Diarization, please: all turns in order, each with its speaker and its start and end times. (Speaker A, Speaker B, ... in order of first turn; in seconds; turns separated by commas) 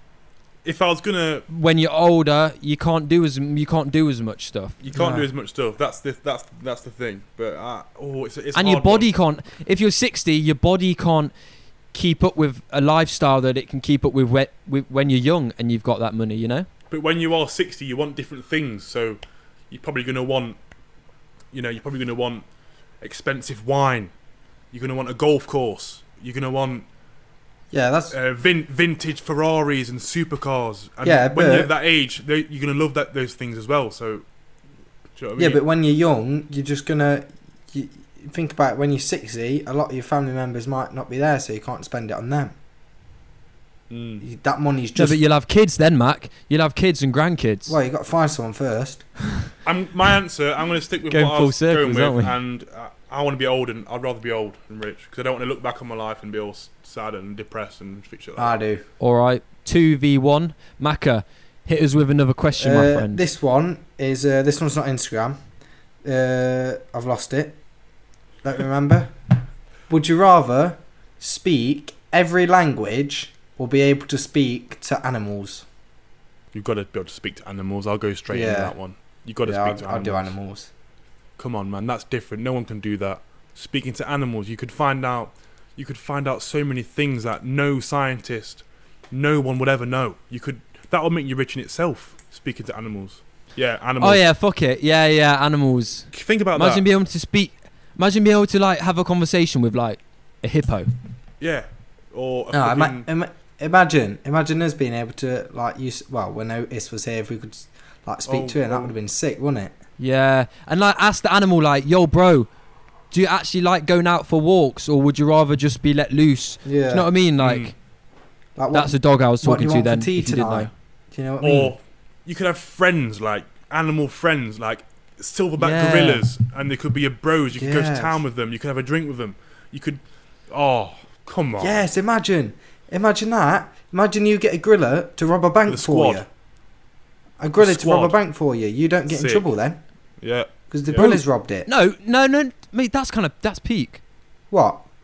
Speaker A: 0.6-1.5, Speaker B: 1.5-4.8, Speaker A: 4.8-9.1, Speaker C: 4.9-5.3, Speaker B: 8.5-11.3, Speaker B: 11.9-16.7, Speaker A: 16.9-20.6, Speaker A: 21.5-22.4, Speaker A: 23.0-24.1, Speaker A: 24.7-26.9, Speaker C: 27.7-28.1, Speaker A: 28.1-34.2, Speaker C: 31.0-31.7, Speaker A: 35.2-35.6, Speaker C: 35.4-42.5, Speaker A: 43.9-44.2, Speaker C: 44.2-45.2, Speaker B: 45.0-47.8, Speaker C: 47.7-49.1, Speaker A: 49.6-58.5, Speaker B: 51.1-52.4, Speaker C: 58.4-58.8, Speaker B: 59.0-63.2, Speaker C: 62.6-65.4, Speaker C: 66.0-67.6, Speaker C: 68.4-69.1, Speaker C: 69.9-75.7, Speaker A: 76.5-80.3, Speaker C: 78.3-78.8, Speaker C: 79.5-80.7, Speaker A: 81.4-94.2, Speaker B: 94.0-100.9, Speaker A: 96.1-96.8, Speaker A: 101.4-103.0, Speaker C: 102.5-109.7, Speaker A: 108.3-108.9, Speaker B: 110.0-112.5, Speaker B: 113.1-117.7, Speaker C: 116.7-117.1, Speaker A: 117.4-117.7, Speaker C: 118.6-121.8, Speaker B: 118.7-120.7, Speaker A: 121.4-131.8, Speaker B: 125.6-126.3, Speaker C: 127.5-128.2, Speaker C: 131.6-136.3, Speaker A: 135.7-136.3, Speaker C: 137.4-139.8, Speaker A: 137.6-138.2, Speaker A: 139.1-139.5, Speaker A: 140.2-141.2, Speaker C: 140.7-141.7, Speaker B: 141.0-144.0, Speaker C: 144.5-144.8